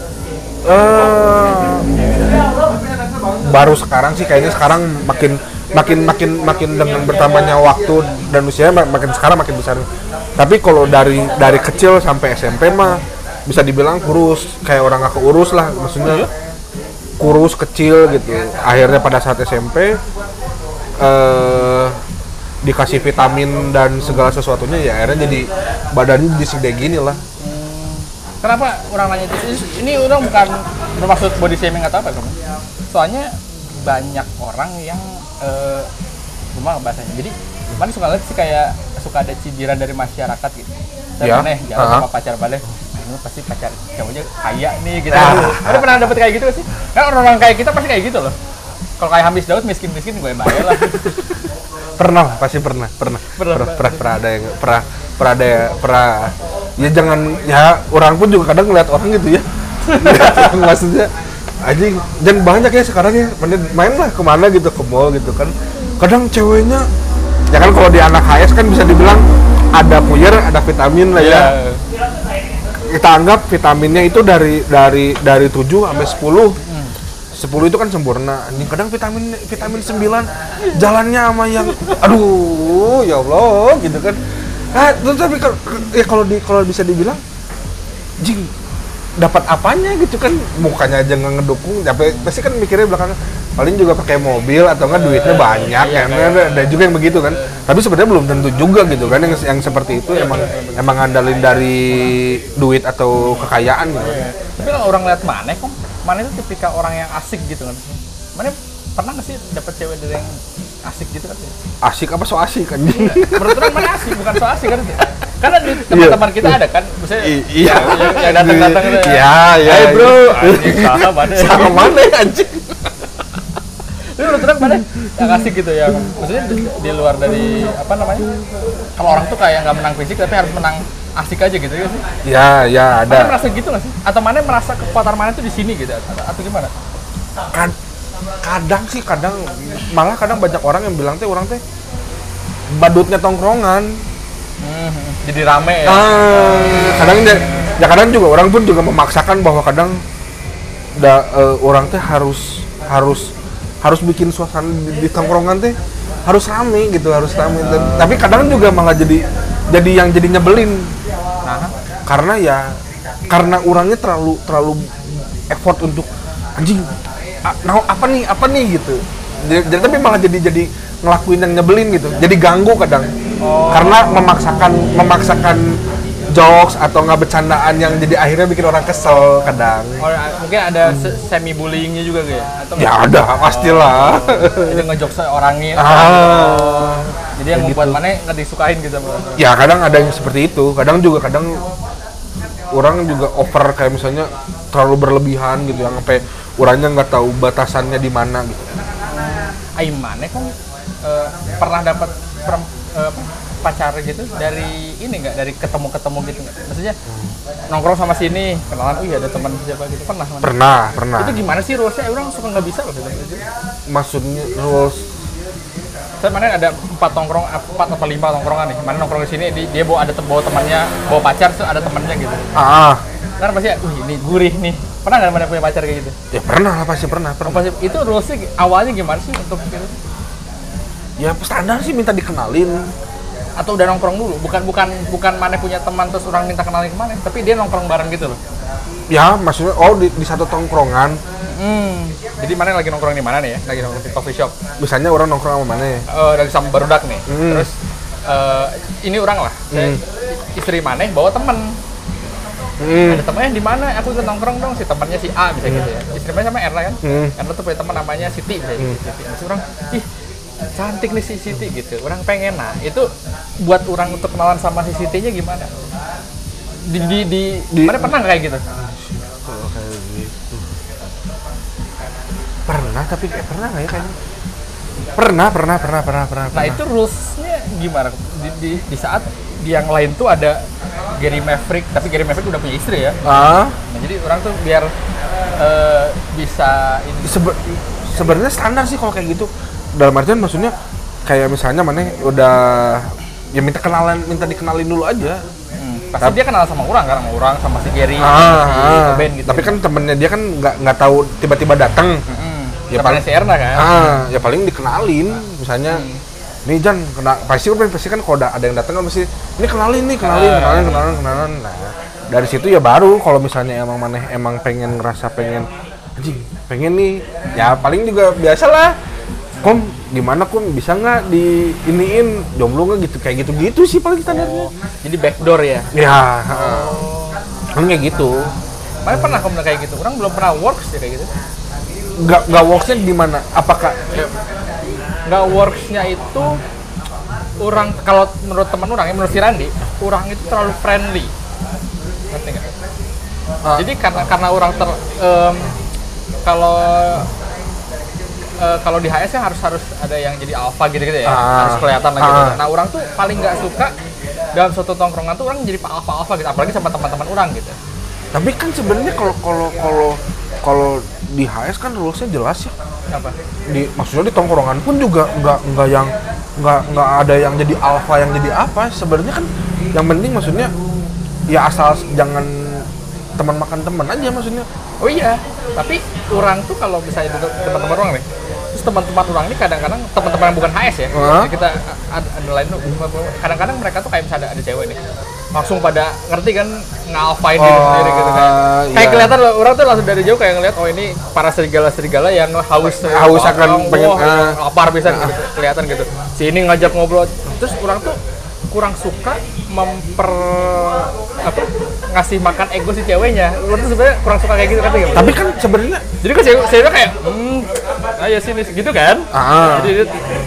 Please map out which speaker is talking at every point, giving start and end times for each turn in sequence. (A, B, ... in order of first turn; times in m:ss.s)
0:00.6-0:01.8 A
0:03.4-0:09.8 A
0:10.4-0:16.3 A
0:16.0-0:16.3 B
0:17.2-0:20.0 A
0:21.0-0:22.0 A
0:22.6-0:27.2 A
0:27.4-0:32.3 B
0:32.9-0:35.9 B
0:36.5-0:48.4 B
0:41.2-0:42.0 A
0:45.1-0:46.1 A
0:49.0-0:51.0 B
0:50.5-0:51.2 A
0:52.0-1:01.1 A
0:53.3-0:54.0 B
0:59.9-1:00.5 B
1:01.6-1:06.9 A
1:07.5-1:09.2 A
1:09.7-1:11.5 A
1:11.1-1:11.8 B
1:12.9-1:16.6 A
1:16.6-1:16.9 B
1:17.3-1:24.2 A
1:21.6-1:22.0 B
1:24.7-1:27.2 A
1:28.2-1:28.5 A
1:29.2-1:44.2 A
1:32.0-1:32.3 B
1:34.9-1:36.8 B
1:39.0-1:40.9 B
1:43.2-1:47.8 B
1:48.3-1:51.5 B
1:51.8-1:54.2 A
1:53.0-2:01.9 B
1:55.7-1:56.6 A
1:57.2-2:02.9 A
2:04.1-2:08.3 B
2:09.0-2:12.0 B
2:12.2-2:13.4 A
2:13.1-2:16.7 B
2:18.4-2:21.6 A
2:22.7-2:24.0 A
2:24.6-2:27.7 B
2:25.8-2:30.0 A
2:31.0-2:33.3 A
2:33.8-2:35.7 A
2:36.2-2:40.9 A
2:37.6-2:38.5 B
2:41.4-2:41.7 B
2:42.1-2:42.6 A
2:43.3-2:44.9 A
2:45.5-2:46.9 A
2:47.4-2:53.1 A
2:53.4-2:54.2 B
2:53.7-2:55.7 A
2:56.3-3:00.0 A
3:00.0-3:09.4 B
3:00.8-3:01.1 A
3:02.8-3:04.8 A
3:05.8-3:08.0 A
3:09.4-3:11.6 A
3:12.7-3:18.7 A
3:19.1-3:20.5 B
3:21.0-3:27.0 B
3:27.7-3:30.5 B
3:30.4-3:31.4 A
3:31.2-3:33.4 B
3:33.9-3:35.0 A
3:36.2-3:42.4 B
3:42.6-3:43.0 A
3:43.4-3:46.1 B
3:46.3-3:47.6 A
3:47.4-3:49.9 B
3:51.2-3:52.8 A
3:53.6-3:58.4 B
3:59.1-4:01.2 A
4:01.5-4:04.5 B
4:04.8-4:06.0 A
4:06.1-4:07.7 B
4:07.3-4:07.7 A
4:08.3-4:10.0 B
4:09.7-4:10.0 A
4:10.5-4:11.7 B
4:12.8-4:13.2 A
4:13.0-4:20.0 B
4:15.6-4:15.9 A
4:17.0-4:17.3 A
4:20.8-4:23.1 B
4:23.6-4:25.7 B
4:26.8-4:28.6 B
4:27.7-4:28.2 A
4:28.8-4:30.7 A
4:32.7-4:34.1 A
4:35.2-4:36.8 A
4:36.5-4:40.6 B
4:41.2-4:43.2 B
4:43.2-4:43.8 A
4:43.8-4:44.9 B
4:45.6-4:47.4 B
4:47.2-4:50.7 A
4:51.2-4:55.4 A
4:55.8-4:59.8 B
4:58.2-5:02.2 A
5:02.3-5:04.2 B
5:02.9-5:03.2 A
5:03.7-5:06.0 A
5:05.9-5:06.2 B
5:06.6-5:18.9 A
5:10.2-5:11.1 B
5:17.4-5:17.8 B
5:19.6-5:24.7 A
5:24.3-5:25.9 B
5:25.9-5:27.0 A
5:26.5-5:27.4 B
5:27.8-5:28.4 A
5:29.0-5:31.3 B
5:29.1-5:29.4 A
5:32.2-5:34.3 A
5:35.2-5:36.6 B
5:37.6-5:41.3 B
5:42.3-5:42.7 B
5:43.7-5:45.7 B
5:46.4-5:47.3 B
5:48.6-5:53.9 B
5:51.2-5:52.6 A
5:54.5-5:57.7 B
5:58.3-6:02.7 A
6:03.7-6:10.7 A
6:11.5-6:12.8 A
6:13.4-6:14.6 A
6:15.0-6:25.0 B
6:21.1-6:21.5 A
6:25.5-6:38.2 B
6:27.6-6:29.4 A
6:33.0-6:35.3 A
6:38.7-6:45.4 B
6:45.1-6:46.0 A
6:46.2-6:50.1 B
6:49.3-6:50.0 A